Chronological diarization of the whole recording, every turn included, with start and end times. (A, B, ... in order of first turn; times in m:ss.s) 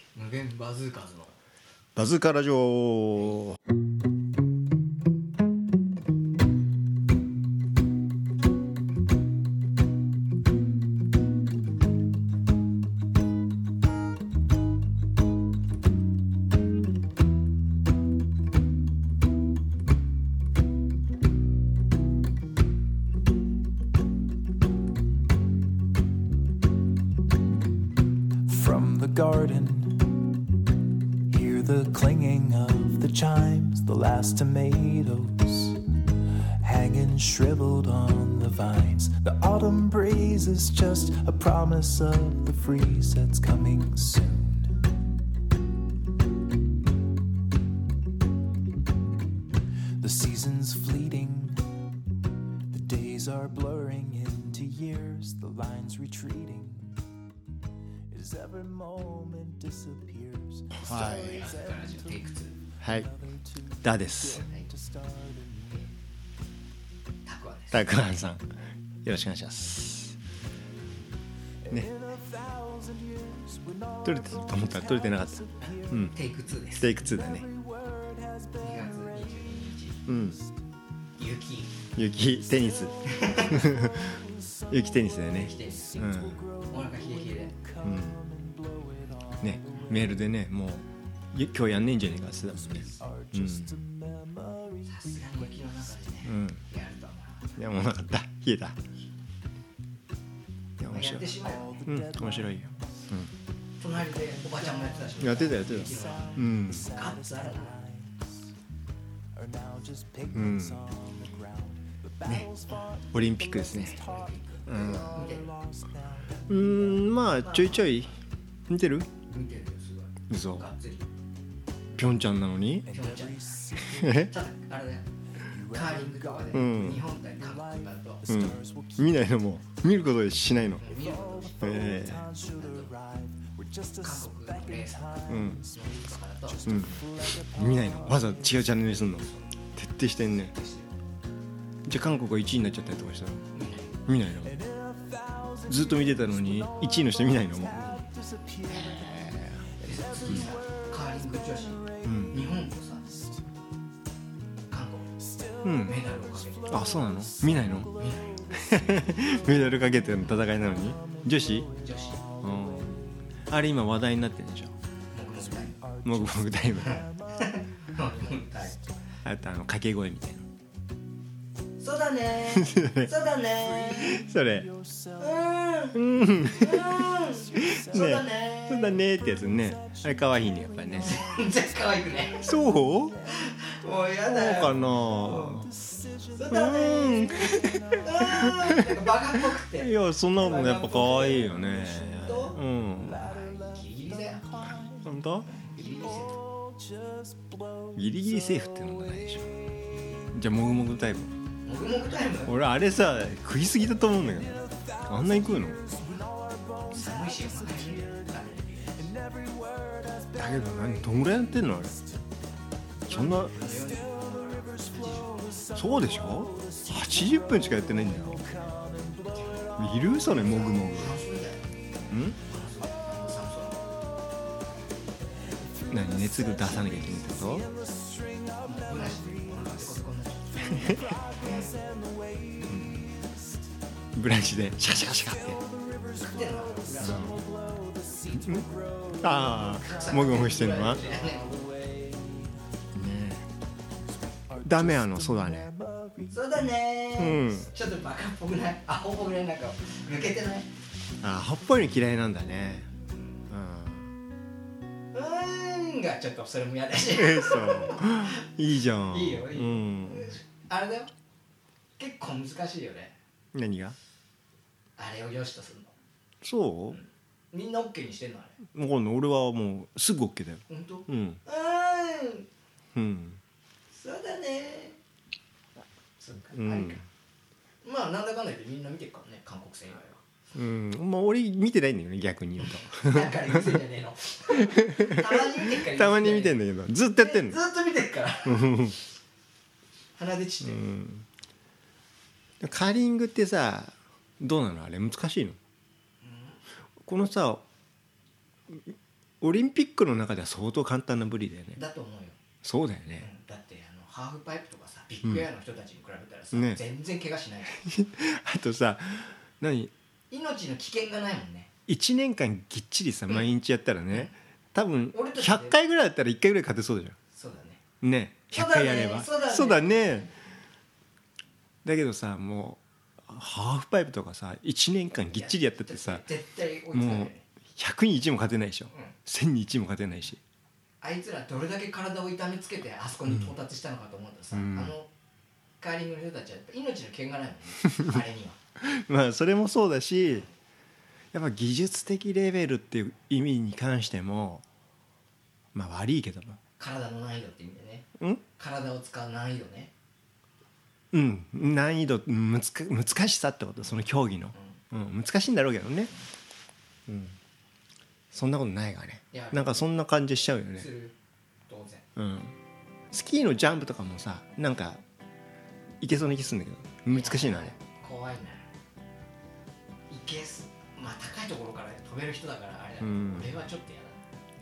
0:00.2-0:01.4 A
0:02.0-0:03.6 B
0:28.4-0:30.5 C
0:31.3-0:44.9 C
0:50.0-0:51.8 C
0:52.7-0:57.1 C
0:58.1-1:00.8 C
1:00.7-1:01.5 B
1:00.8-1:02.7 A
1:02.8-1:03.3 B
1:03.8-1:04.5 B
1:04.5-1:04.8 A
1:04.8-1:05.7 C
1:07.3-1:07.9 A
1:07.7-1:08.5 B
1:09.0-1:10.2 B
1:12.1-1:12.8 A
1:12.7-1:14.0 C
1:14.0-1:16.2 B
1:14.9-1:15.6 C
1:15.6-1:16.9 A
1:16.8-1:17.5 B
1:17.7-1:18.5 C
1:18.5-1:20.0 A
1:20.1-1:20.4 B
1:21.2-1:21.8 A
1:22.0-1:26.5 B
1:23.0-1:23.7 A
1:25.3-1:27.7 A
1:26.2-1:26.6 C
1:27.6-1:29.4 C
1:27.8-1:28.2 B
1:29.4-1:33.9 B
1:29.7-1:30.0 A
1:33.0-1:34.8 C
1:34.8-1:37.7 A
1:36.2-1:36.6 B
1:37.6-1:38.8 B
1:40.8-1:43.3 B
1:40.9-1:41.9 A
1:41.6-1:42.1 C
1:43.8-1:47.8 A
1:45.2-1:46.9 B
1:47.8-1:48.1 C
1:49.4-1:54.1 C
1:50.3-1:50.9 B
1:52.2-1:54.1 B
1:52.7-1:53.0 A
1:54.1-1:55.6 A
1:54.6-1:55.3 B
1:55.4-1:56.6 C
1:56.4-1:58.1 B
1:57.3-1:58.1 A
1:58.7-1:59.1 B
1:59.2-2:01.1 A
2:00.3-2:00.7 B
2:02.0-2:03.0 B
2:02.9-2:05.1 A
2:03.3-2:04.1 C
2:03.8-2:04.3 B
2:05.5-2:06.6 C
2:05.6-2:08.4 A
2:06.5-2:07.1 B
2:08.3-2:11.0 B
2:08.3-2:09.0 C
2:10.8-2:13.0 A
2:11.5-2:14.0 C
2:11.6-2:12.3 B
2:13.9-2:16.8 A
2:14.8-2:15.6 C
2:15.3-2:15.7 B
2:16.6-2:18.1 C
2:16.6-2:20.5 B
2:19.1-2:19.6 A
2:20.4-2:21.0 A
2:21.8-2:23.5 B
2:23.5-2:24.0 A
2:24.0-2:24.6 B
2:24.7-2:25.7 C
2:25.6-2:27.9 B
2:27.6-2:28.2 A
2:28.1-2:29.7 C
2:28.6-2:30.5 B
2:29.8-2:33.4 A
2:32.0-2:32.4 B
2:34.7-2:36.9 A
2:35.6-2:36.0 B
2:36.7-2:37.9 B
2:37.8-2:38.5 A
2:38.5-2:41.8 B
2:41.0-2:41.3 C
2:41.7-2:42.4 A
2:42.2-2:42.9 C
2:42.4-2:44.8 B
2:45.1-2:45.9 A
2:45.9-2:46.1 C
2:46.0-2:47.0 B
2:46.7-2:48.9 A
2:49.2-2:50.5 B
2:51.8-2:54.2 A
2:52.5-2:53.1 B
2:53.8-2:55.2 C
2:54.0-2:54.7 B
2:55.2-2:59.0 A
2:55.9-3:01.2 B
2:57.4-2:58.0 C
2:59.3-3:01.4 C
3:01.0-3:02.5 A
3:02.4-3:03.2 B
3:03.2-3:05.7 A
3:04.2-3:05.8 B
3:05.8-3:06.3 C
3:06.3-3:14.8 A
3:06.5-3:09.0 B
3:07.5-3:08.0 C
3:09.7-3:13.4 B
3:14.7-3:15.5 B
3:15.4-3:16.4 A
3:17.9-3:19.6 B
3:20.2-3:21.3 B
3:21.6-3:22.6 A
3:22.5-3:26.0 B
3:25.9-3:26.3 A
3:26.1-3:26.9 C
3:26.8-3:29.2 A
3:29.3-3:30.4 C
3:30.4-3:32.0 B
3:33.1-3:33.6 B
3:33.1-3:35.8 A
3:35.2-3:35.8 C
3:35.7-3:38.5 B
3:36.4-3:37.0 C
3:38.5-3:39.3 C
3:39.2-3:41.7 A
3:39.8-3:41.2 B
3:42.1-3:42.4 B
3:42.3-3:44.0 A
3:45.7-3:46.6 C
3:45.9-3:47.7 B
3:47.5-3:48.6 C
3:48.6-3:51.8 A
3:51.5-3:52.7 C
3:52.7-3:53.1 B
3:54.2-3:55.6 B
3:55.4-3:59.8 C
3:56.1-3:57.4 A
3:57.0-3:57.4 B
3:58.4-4:01.1 B
3:59.7-4:01.7 A
4:01.3-4:02.6 C
4:02.9-4:03.5 B
4:04.5-4:06.2 C
4:04.6-4:05.8 B
4:06.2-4:10.7 A
4:07.2-4:07.7 B
4:11.2-4:12.9 B
4:13.1-4:13.4 A
4:13.5-4:14.1 B
4:15.1-4:21.1 A
4:17.1-4:20.4 B
4:22.0-4:23.2 A
4:23.5-4:24.0 B
4:25.0-4:25.9 A
4:26.4-4:27.0 B
4:26.9-4:28.7 A
4:28.7-4:31.4 B
4:30.7-4:32.5 A
4:33.0-4:33.4 B
4:33.9-4:35.0 A
4:36.2-4:37.0 A
4:36.6-4:37.0 B
4:37.8-4:40.2 A
4:40.6-4:43.8 B
4:42.6-4:48.9 A
4:44.5-4:47.6 B
4:48.5-4:49.0 B
4:50.2-4:50.9 A
4:50.6-4:51.3 B
4:52.6-4:55.6 B
4:56.2-4:56.6 A
4:57.0-4:57.6 B
4:58.7-5:01.8 B
5:01.8-5:02.5 A
5:02.6-5:03.3 B
5:03.2-5:07.8 A
5:06.5-5:06.8 B
5:07.8-5:09.9 B
5:10.3-5:11.7 A
5:11.9-5:17.2 B
5:14.1-5:14.3 A
5:15.1-5:15.8 A
5:17.3-5:17.9 A
5:18.0-5:20.3 B
5:18.5-5:20.3 A
5:21.8-5:26.3 B
5:25.3-5:27.4 A
5:26.9-5:30.4 B
5:28.9-5:29.2 A
5:31.0-5:35.1 A
5:34.5-5:35.0 B
5:35.8-5:38.6 A
5:38.8-5:40.5 B
5:41.3-5:44.6 B
5:45.7-5:46.6 B
5:46.8-5:49.9 A
5:48.2-5:48.4 B
5:51.1-5:56.1 B
5:54.5-5:54.8 A
5:57.1-5:57.4 B
5:58.3-6:00.9 B
5:59.3-5:59.9 A
6:00.7-6:01.2 A
6:01.7-6:02.1 A
6:02.2-6:02.6 B
6:03.1-6:05.0 B
6:06.0-6:07.8 B
6:07.1-6:08.7 A
6:10.1-6:14.2 A
6:13.0-6:13.5 B